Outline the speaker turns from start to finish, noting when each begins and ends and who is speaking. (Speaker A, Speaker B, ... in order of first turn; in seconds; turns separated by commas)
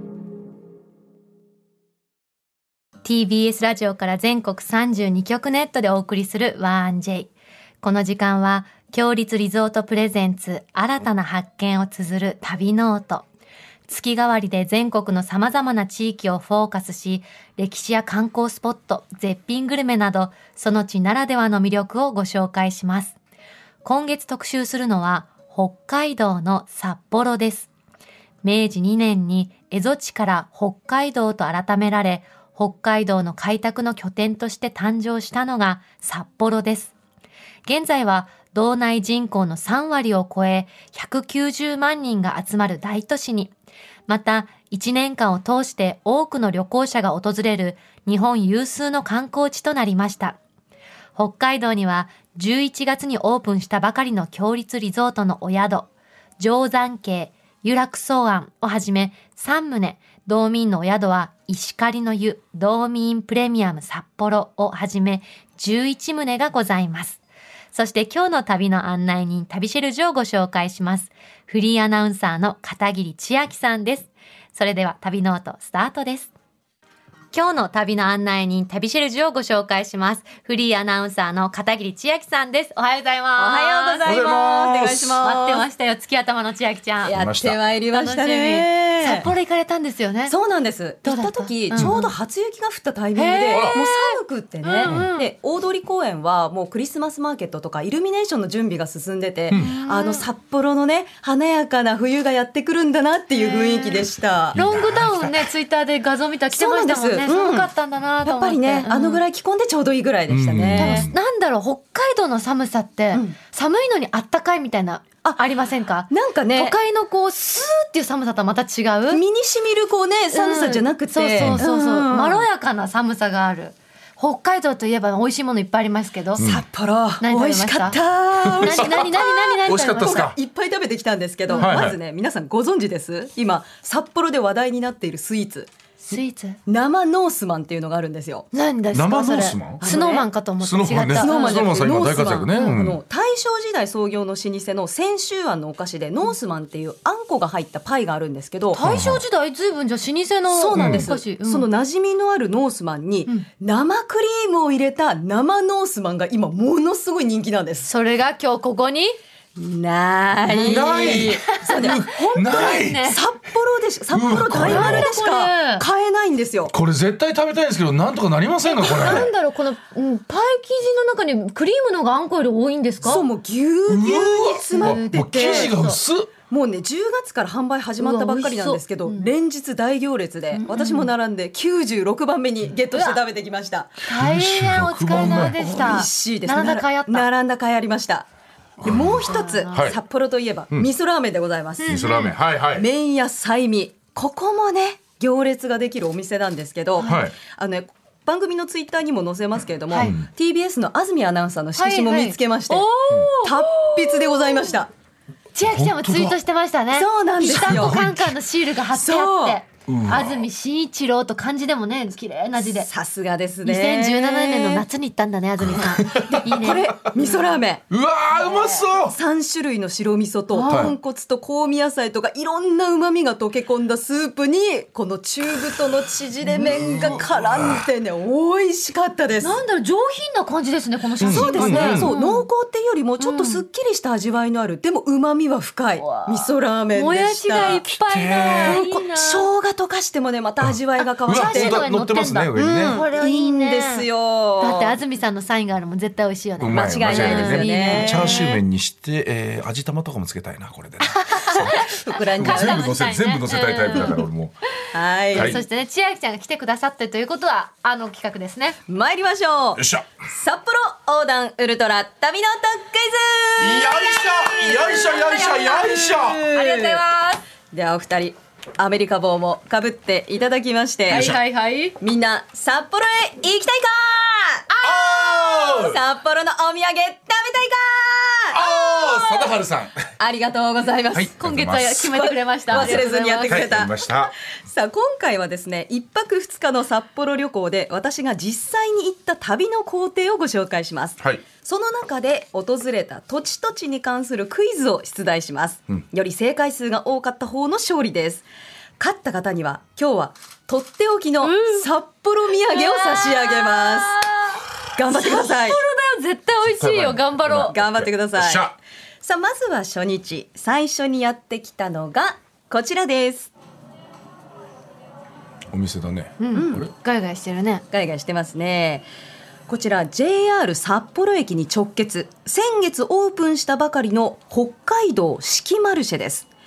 Speaker A: 3.0-13.2, Speaker A: 13.9-23.1, Speaker A: 23.8-27.7, Speaker A: 28.4-36.9, Speaker A: 37.6-43.5, Speaker A: 44.1-50.4, Speaker A: 51.1-67.2, Speaker A: 67.7-76.3, Speaker A: 77.3-84.0, Speaker B: 83.3-85.7, Speaker C: 84.0-85.2, Speaker A: 85.2-87.1, Speaker B: 87.0-89.3, Speaker C: 87.1-87.6, Speaker A: 87.9-90.3, Speaker B: 90.3-104.6, Speaker A: 91.0-92.1, Speaker A: 93.1-95.3, Speaker C: 93.5-93.8, Speaker A: 99.5-100.2, Speaker A: 103.3-109.2, Speaker C: 104.5-105.5, Speaker B: 106.5-107.7, Speaker B: 108.2-111.1, Speaker C: 110.3-111.2, Speaker A: 110.8-119.2, Speaker B: 116.1-116.8, Speaker B: 119.1-122.4, Speaker A: 120.3-126.4, Speaker C: 121.3-121.7, Speaker C: 126.4-126.6, Speaker B: 126.4-135.7, Speaker A: 127.2-128.0, Speaker C: 128.4-129.1, Speaker A: 128.6-130.3, Speaker C: 129.6-130.4, Speaker A: 131.5-131.9, Speaker C: 131.6-132.0, Speaker A: 136.1-136.6, Speaker B: 136.7-138.5, Speaker A: 138.5-142.8, Speaker C: 138.9-139.8, Speaker B: 139.8-140.3, Speaker C: 140.6-143.0, Speaker B: 141.1-148.8, Speaker A: 148.7-151.7, Speaker C: 148.8-149.2, Speaker B: 150.5-157.9, Speaker C: 150.7-151.1, Speaker A: 157.9-159.2, Speaker B: 159.6-166.7, Speaker A: 160.4-163.2, Speaker C: 160.5-163.1, Speaker C: 164.1-165.1, Speaker A: 164.5-165.8, Speaker C: 166.7-169.3, Speaker A: 168.6-173.2, Speaker B: 173.0-175.9, Speaker C: 173.9-176.3, Speaker A: 174.7-175.9, Speaker B: 176.5-184.1, Speaker A: 178.0-179.3, Speaker A: 180.5-181.1, Speaker A: 182.9-183.2, Speaker A: 184.0-187.3, Speaker C: 184.1-185.6, Speaker B: 185.2-188.2, Speaker B: 188.8-192.1, Speaker C: 188.8-190.0, Speaker A: 188.8-189.9, Speaker A: 191.8-192.3, Speaker C: 191.9-192.8, Speaker B: 192.7-204.9, Speaker C: 197.0-197.3, Speaker C: 199.9-200.3, Speaker A: 201.8-204.8, Speaker A: 205.5-212.9, Speaker C: 205.6-206.4, Speaker B: 206.9-208.0, Speaker C: 207.5-208.4, Speaker B: 208.9-209.6, Speaker C: 209.9-210.4, Speaker B: 212.6-214.8, Speaker A: 213.6-217.6, Speaker C: 215.6-216.7, Speaker B: 216.1-217.8, Speaker C: 217.9-219.2, Speaker A: 218.3-218.9, Speaker B: 219.0-229.6, Speaker A: 220.5-220.9, Speaker C: 220.7-220.9, Speaker A: 226.4-227.2, Speaker C: 226.6-227.9, Speaker A: 229.4-232.4, Speaker C: 231.2-232.1, Speaker B: 231.2-237.8, Speaker A: 233.2-233.6, Speaker A: 236.0-239.4, Speaker C: 237.8-238.8, Speaker B: 238.6-241.9, Speaker A: 241.2-244.1, Speaker C: 241.3-243.0, Speaker B: 242.5-244.9, Speaker A: 244.6-248.6, Speaker C: 246.6-254.6, Speaker B: 246.7-248.4, Speaker A: 251.0-254.2, Speaker B: 251.4-253.0, Speaker B: 254.9-255.6, Speaker A: 255.3-258.8, Speaker C: 255.3-255.6, Speaker B: 258.9-265.1, Speaker C: 259.8-260.1, Speaker C: 263.6-266.4, Speaker A: 264.3-267.4, Speaker B: 266.0-267.0, Speaker B: 267.7-271.4, Speaker C: 271.1-271.4, Speaker A: 271.1-271.9, Speaker B: 272.0-274.7, Speaker A: 274.7-275.4, Speaker C: 274.8-276.0, Speaker B: 275.2-279.5, Speaker C: 278.5-280.0, Speaker B: 280.2-281.3, Speaker C: 281.1-282.1, Speaker A: 281.4-283.7, Speaker B: 281.9-298.4, Speaker C: 282.7-284.3, Speaker B: 299.0-304.3, Speaker A: 301.4-301.9, Speaker A: 302.5-307.8, Speaker B: 304.9-305.8, Speaker C: 306.6-308.7, Speaker B: 307.7-308.7, Speaker B: 309.2-313.5, Speaker C: 315.7-316.9, Speaker A: 316.4-317.8, Speaker B: 316.5-316.9, Speaker B: 317.9-319.1, Speaker B: 319.7-326.5